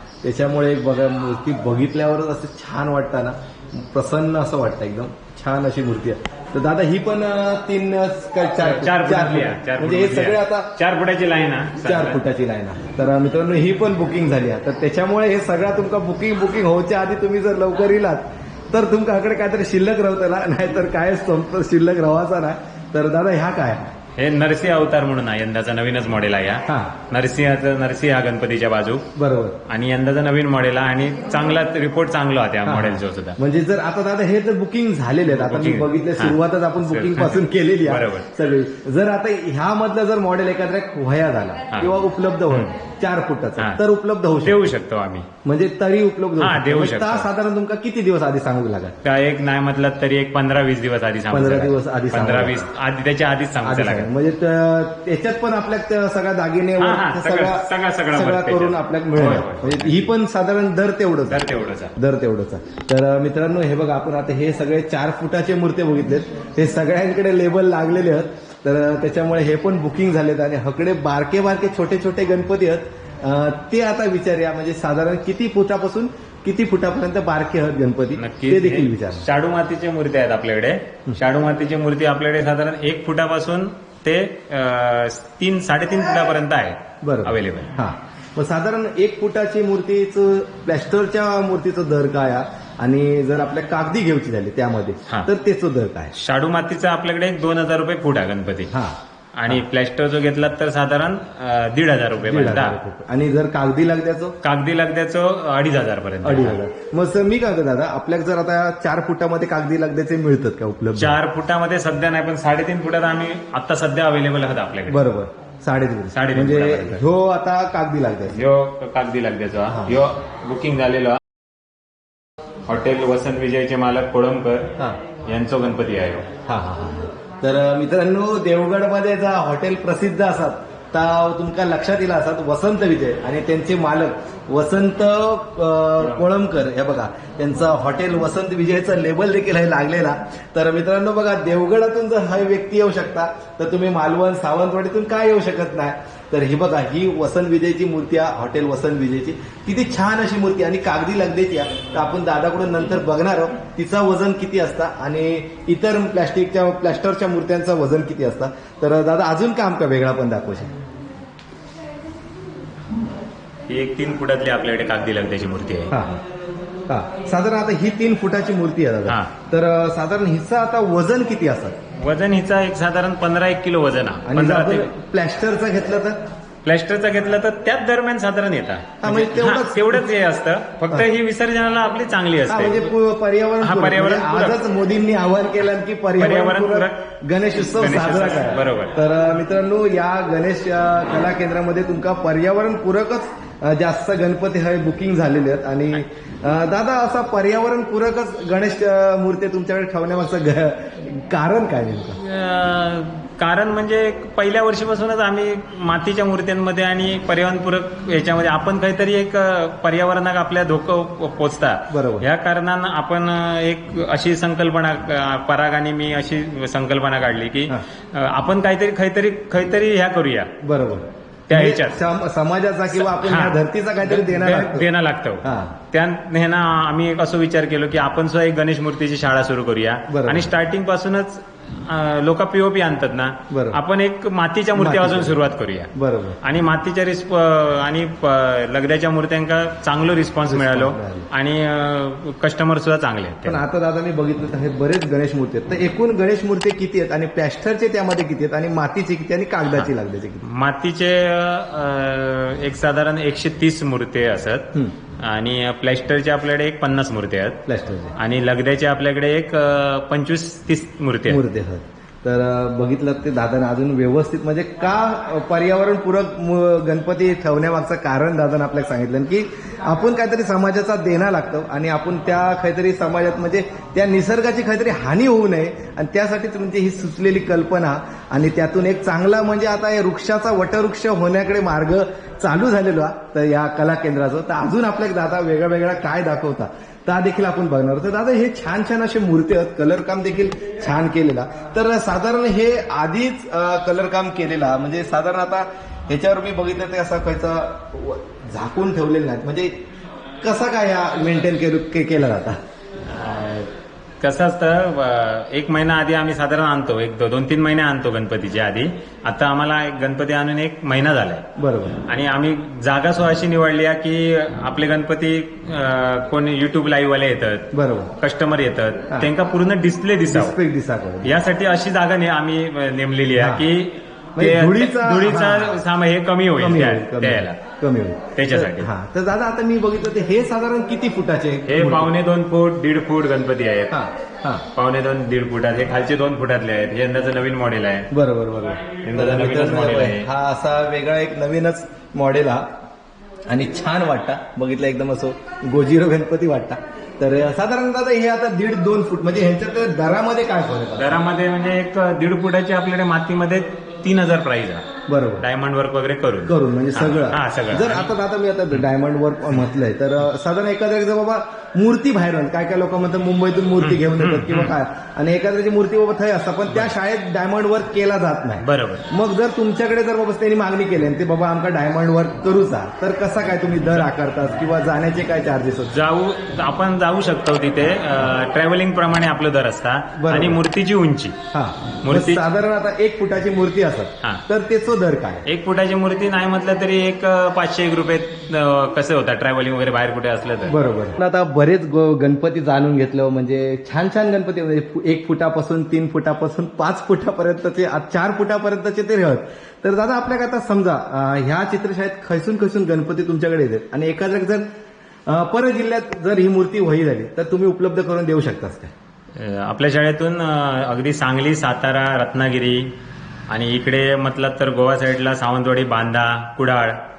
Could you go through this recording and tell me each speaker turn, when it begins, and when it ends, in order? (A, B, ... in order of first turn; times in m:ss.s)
0:00.2-0:10.7 A
0:08.6-0:12.2 B
0:11.8-0:23.9 A
0:24.2-0:29.0 B
0:26.7-0:26.9 A
0:29.2-0:29.6 A
0:29.7-0:33.4 B
0:32.6-0:44.7 A
0:35.3-0:38.3 B
0:44.4-0:45.3 B
0:45.4-0:48.9 A
0:46.4-0:47.3 B
0:49.0-0:54.1 B
0:51.3-0:52.7 A
0:53.6-1:01.4 A
0:56.8-1:00.0 B
1:01.3-1:01.9 B
1:02.0-1:19.2 A
1:18.2-1:27.7 B
1:27.0-1:36.1 A
1:36.1-1:38.7 B
1:38.7-1:39.0 A
1:39.4-1:42.8 B
1:42.2-1:44.4 A
1:44.4-1:46.6 B
1:46.2-1:51.2 A
1:51.0-1:55.1 B
1:54.9-1:58.4 A
1:56.1-1:57.0 B
1:58.3-2:01.2 B
1:59.7-2:00.0 A
2:02.6-2:06.3 B
2:06.4-2:40.7 A
2:43.7-2:45.9 B
2:45.9-2:46.2 A
2:46.9-2:51.8 A
2:49.1-2:49.3 B
2:52.0-2:54.9 B
2:54.2-2:56.2 A
2:56.6-3:02.9 B
2:59.0-3:00.1 A
3:02.5-3:22.2 A
3:03.6-3:04.6 B
3:06.2-3:07.0 B
3:07.6-3:08.9 B
3:22.2-3:40.5 B
3:31.9-3:32.2 A
3:40.6-3:44.9 A
3:41.5-3:42.0 B
3:43.0-3:55.9 B
3:45.4-3:45.8 A
3:50.1-3:50.6 A
3:53.5-3:53.8 A
3:54.8-3:55.4 A
3:55.9-3:56.4 A
3:56.4-4:03.6 B
4:00.5-4:01.3 A
4:03.4-4:10.4 A
4:10.4-4:17.6 B
4:17.6-4:18.2 A
4:18.2-4:21.4 B
4:21.3-4:59.7 A
5:00.4-5:02.6 A
5:03.0-5:03.7 B
5:04.2-5:11.4 B
5:11.6-5:12.0 A
5:12.0-5:20.5 B
5:17.7-5:18.1 A
5:20.3-5:21.3 A
5:21.2-5:27.6 B
5:23.4-5:23.7 A
5:24.4-5:25.8 A
5:26.6-5:32.1 A
5:28.4-5:28.9 B
5:31.6-5:34.0 B
5:33.9-5:34.6 A
5:34.7-5:38.1 B
5:38.1-5:42.7 A
5:39.0-5:40.3 B
5:43.5-5:51.2 A
5:51.0-5:54.9 B
5:55.1-5:55.4 A
5:55.4-5:58.1 B
5:56.4-6:15.9 A
6:03.8-6:04.7 B
6:08.6-6:09.1 B
6:15.9-6:21.4 B
6:20.2-6:20.6 A
6:21.5-6:25.4 A
6:22.0-6:22.4 B
6:25.4-6:30.8 B
6:30.7-6:44.6 A
6:45.3-6:48.9 A
6:49.4-6:52.9 B
6:53.5-6:57.0 B